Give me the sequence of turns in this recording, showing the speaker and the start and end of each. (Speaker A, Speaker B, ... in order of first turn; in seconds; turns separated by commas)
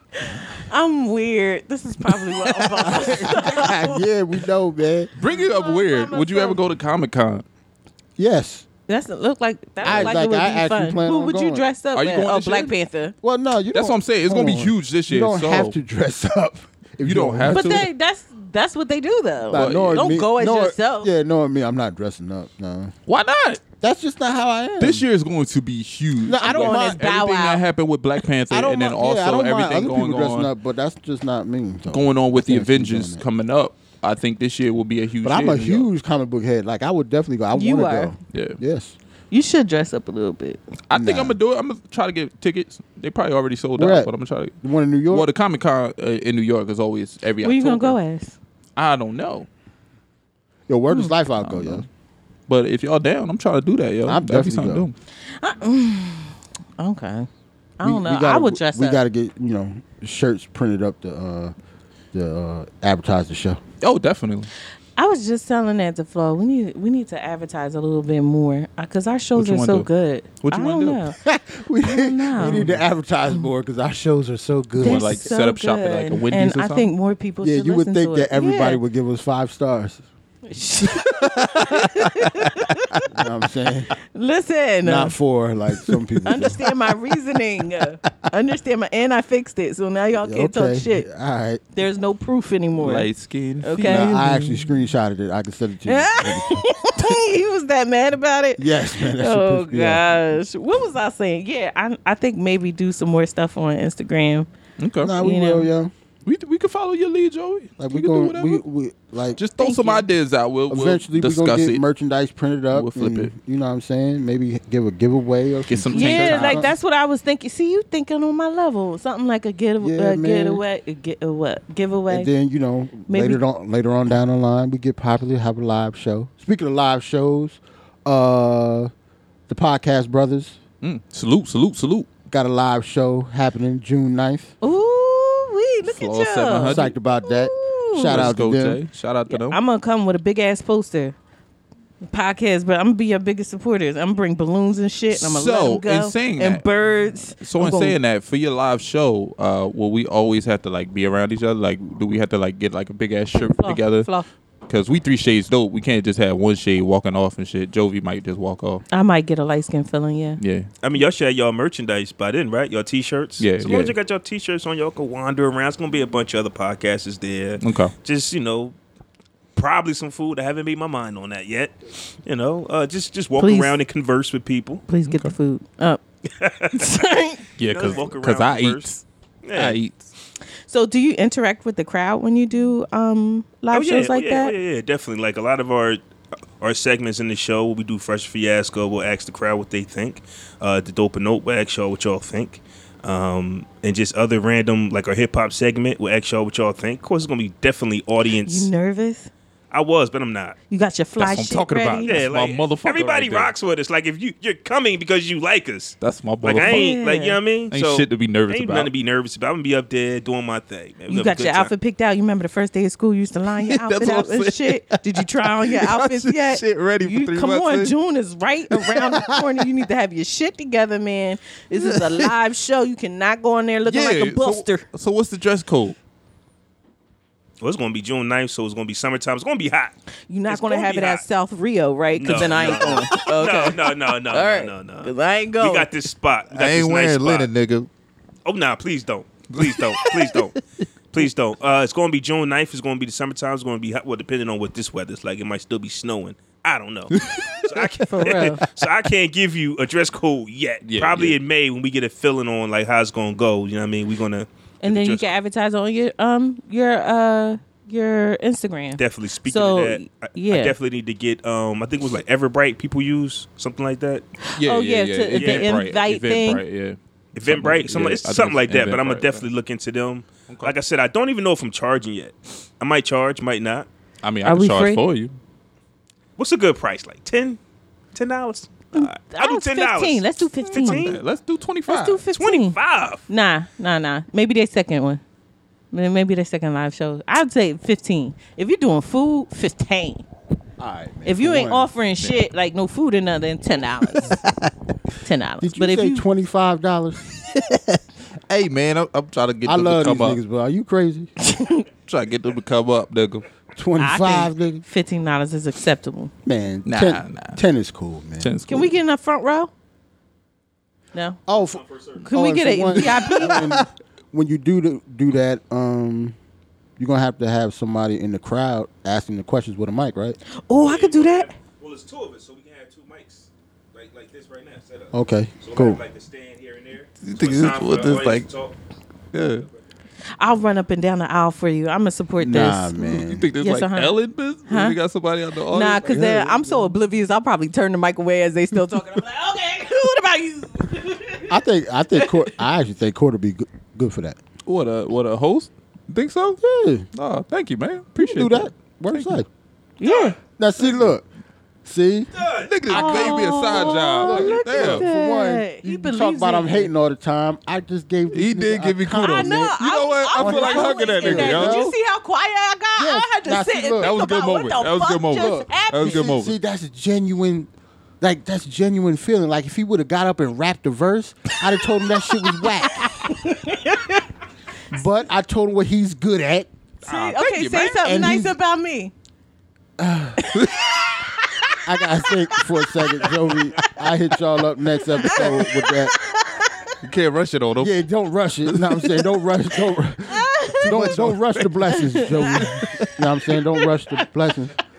Speaker A: 0.2-4.1, Speaker B: 2.5-3.0, Speaker C: 2.8-5.1, Speaker B: 5.2-7.5, Speaker A: 5.2-6.6, Speaker C: 8.2-8.7, Speaker A: 8.9-13.1, Speaker B: 9.8-10.1, Speaker C: 9.8-11.6, Speaker B: 11.9-12.7, Speaker C: 13.2-17.9, Speaker B: 13.7-15.8, Speaker B: 17.0-17.9, Speaker A: 17.5-21.1, Speaker C: 19.5-22.9, Speaker B: 19.5-20.1, Speaker B: 23.1-23.6, Speaker C: 23.8-25.1, Speaker B: 24.8-30.5, Speaker C: 26.3-27.5, Speaker A: 26.4-27.6, Speaker C: 28.5-33.2, Speaker B: 31.9-35.9, Speaker C: 35.2-39.0, Speaker A: 37.5-38.1, Speaker B: 38.3-38.6, Speaker A: 39.3-40.6, Speaker B: 40.9-44.5, Speaker C: 40.9-41.4, Speaker C: 43.8-44.1, Speaker C: 44.6-45.3, Speaker B: 45.1-48.0, Speaker A: 47.4-48.4, Speaker B: 48.8-49.5, Speaker C: 50.7-51.9, Speaker B: 51.4-51.9, Speaker B: 52.5-54.9, Speaker C: 54.1-54.9, Speaker A: 55.4-57.3, Speaker A: 57.8-59.0, Speaker C: 57.8-61.5, Speaker C: 62.1-63.6, Speaker B: 63.8-64.5, Speaker A: 65.0-71.2, Speaker B: 69.4-69.9, Speaker B: 70.4-71.1, Speaker C: 71.2-75.3, Speaker A: 71.8-72.7, Speaker B: 72.4-72.8, Speaker B: 74.8-76.9, Speaker A: 74.8-78.8, Speaker C: 77.4-80.0, Speaker A: 80.5-83.1, Speaker B: 81.1-82.4, Speaker C: 83.1-84.0, Speaker A: 84.1-85.2, Speaker C: 84.8-86.7, Speaker A: 86.3-91.1, Speaker C: 90.2-91.6, Speaker A: 91.8-93.1, Speaker B: 92.8-94.1, Speaker A: 93.6-94.7, Speaker C: 93.8-96.7, Speaker A: 95.9-104.5, Speaker C: 98.6-100.0, Speaker B: 104.8-105.1, Speaker C: 105.0-105.9, Speaker A: 105.2-105.7, Speaker B: 106.2-108.6, Speaker C: 107.8-109.4, Speaker B: 109.4-111.8, Speaker A: 109.6-110.1, Speaker C: 110.7-116.7, Speaker B: 112.7-113.3, Speaker B: 115.7-116.6, Speaker A: 115.9-122.3, Speaker C: 119.8-120.6, Speaker C: 122.1-128.9, Speaker A: 123.1-123.4, Speaker C: 129.5-130.6, Speaker B: 130.8-132.1, Speaker C: 132.3-134.5, Speaker A: 134.6-138.3, Speaker B: 135.8-136.9, Speaker C: 136.7-138.8, Speaker B: 138.1-139.6, Speaker A: 139.3-141.2, Speaker A: 142.1-148.0, Speaker B: 145.1-154.1, Speaker A: 153.3-154.3, Speaker B: 154.7-158.8, Speaker A: 158.9-160.4, Speaker B: 160.4-160.7, Speaker D: 160.8-168.8, Speaker B: 163.4-163.9, Speaker B: 167.6-167.9, Speaker D: 169.6-174.8, Speaker A: 173.4-173.8, Speaker A: 174.9-176.0, Speaker B: 175.1-175.3, Speaker D: 176.4-176.9, Speaker A: 176.8-177.4, Speaker B: 177.6-179.0, Speaker D: 177.7-178.9, Speaker D: 179.4-179.8, Speaker B: 179.5-180.1, Speaker A: 180.7-184.5, Speaker D: 183.7-186.0, Speaker D: 186.6-198.7, Speaker A: 198.5-199.3, Speaker D: 199.7-200.6, Speaker A: 200.7-202.2, Speaker B: 201.2-203.5, Speaker D: 202.1-211.7, Speaker B: 206.0-206.9, Speaker A: 206.5-207.4, Speaker B: 207.7-208.9, Speaker A: 211.1-224.8, Speaker B: 213.6-217.9, Speaker B: 221.7-222.3, Speaker B: 223.9-226.0, Speaker D: 227.6-229.9, Speaker A: 230.3-235.9, Speaker D: 230.5-231.2, Speaker D: 232.2-237.5, Speaker B: 232.3-233.6, Speaker B: 236.5-237.9, Speaker D: 238.4-240.6, Speaker B: 239.6-240.5, Speaker D: 241.1-255.2, Speaker B: 247.2-247.7, Speaker A: 248.1-248.7, Speaker B: 248.2-248.7, Speaker B: 250.8-251.4, Speaker A: 254.8-260.8, Speaker D: 259.0-264.3, Speaker A: 264.4-266.6, Speaker B: 264.6-269.5, Speaker D: 265.4-265.7, Speaker D: 267.3-273.9, Speaker B: 270.5-270.7, Speaker B: 274.2-275.4, Speaker A: 274.4-275.0, Speaker D: 276.4-277.6, Speaker D: 278.1-281.2, Speaker A: 278.9-281.2, Speaker B: 280.7-282.2, Speaker A: 281.9-282.8, Speaker D: 282.4-283.2, Speaker A: 283.3-285.2, Speaker A: 285.9-290.2, Speaker C: 290.8-291.9, Speaker A: 291.3-294.4, Speaker A: 295.2-296.2, Speaker C: 295.6-297.3, Speaker B: 297.5-300.4, Speaker C: 299.6-301.3, Speaker A: 301.4-301.8, Speaker B: 302.1-303.5, Speaker C: 303.8-304.8, Speaker A: 304.0-306.3, Speaker C: 306.4-308.6, Speaker B: 306.9-307.6, Speaker B: 308.4-308.9, Speaker A: 308.7-309.7, Speaker A: 311.1-311.4, Speaker C: 311.5-316.4, Speaker D: 311.5-312.3, Speaker A: 312.2-313.7, Speaker B: 313.6-313.8, Speaker C: 317.0-320.4, Speaker A: 320.6-321.5, Speaker D: 320.8-328.8, Speaker C: 325.1-326.0, Speaker B: 327.2-328.5, Speaker B: 329.3-329.7, Speaker A: 330.4-335.0, Speaker C: 332.4-333.5, Speaker B: 333.1-336.4, Speaker A: 335.7-341.5, Speaker C: 336.1-336.9, Speaker C: 341.5-344.4, Speaker B: 344.7-346.6, Speaker C: 346.6-347.1, Speaker B: 347.1-349.4, Speaker C: 348.2-349.5, Speaker A: 350.0-350.4, Speaker D: 350.0-350.4, Speaker C: 350.6-351.2, Speaker C: 351.9-352.3, Speaker D: 352.3-352.7, Speaker B: 352.7-355.1, Speaker C: 352.9-359.8, Speaker A: 352.9-356.9, Speaker B: 358.3-361.9, Speaker A: 359.2-366.3, Speaker C: 360.4-361.9, Speaker C: 363.0-364.2, Speaker B: 364.0-366.6, Speaker C: 365.3-367.7, Speaker C: 368.2-373.4, Speaker A: 372.4-374.2, Speaker C: 374.9-376.7, Speaker A: 377.0-379.1, Speaker B: 377.0-378.0, Speaker C: 378.0-378.6, Speaker C: 380.0-380.5, Speaker A: 380.4-380.8, Speaker C: 381.8-386.1, Speaker A: 383.0-383.2, Speaker A: 385.2-386.7, Speaker B: 387.0-388.0, Speaker C: 387.8-394.8, Speaker B: 388.7-389.4, Speaker A: 390.3-390.9, Speaker B: 390.8-393.1, Speaker A: 391.9-392.7